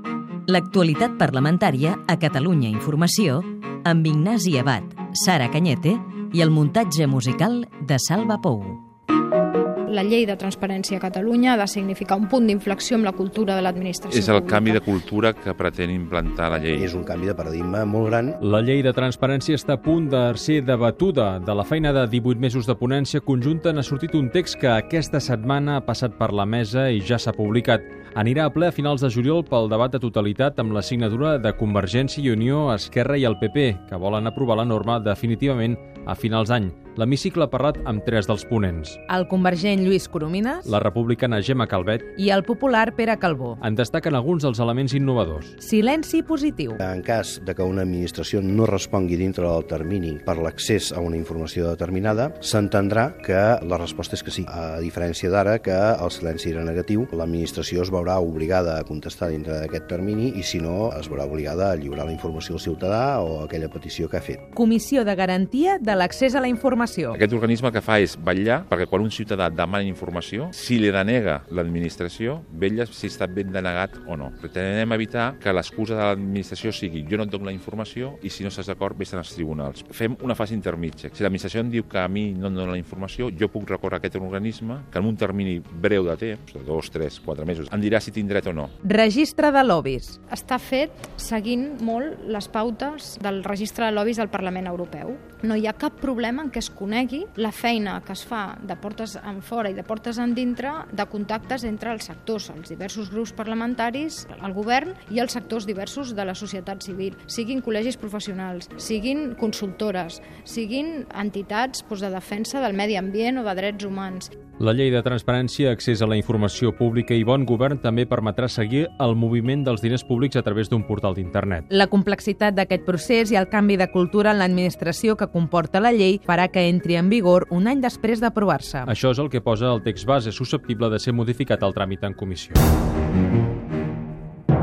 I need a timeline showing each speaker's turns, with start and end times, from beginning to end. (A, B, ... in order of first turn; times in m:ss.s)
0:00.5-0:08.8 A
0:09.9-0:14.9 B
0:14.1-0:16.9 C
0:16.8-0:18.4 D
0:18.4-0:39.0 E
0:39.1-0:40.7 F
0:40.7-0:42.0 E
0:42.2-0:43.6 F
0:43.6-0:45.5 E
0:45.6-0:46.8 F
0:46.8-1:04.4 D
1:04.5-1:07.2 F
1:07.1-1:28.7 C
1:28.8-1:30.2 F
1:30.3-1:54.3 B
1:54.6-2:01.7 E
2:01.7-2:08.9 F
2:08.9-2:12.6 E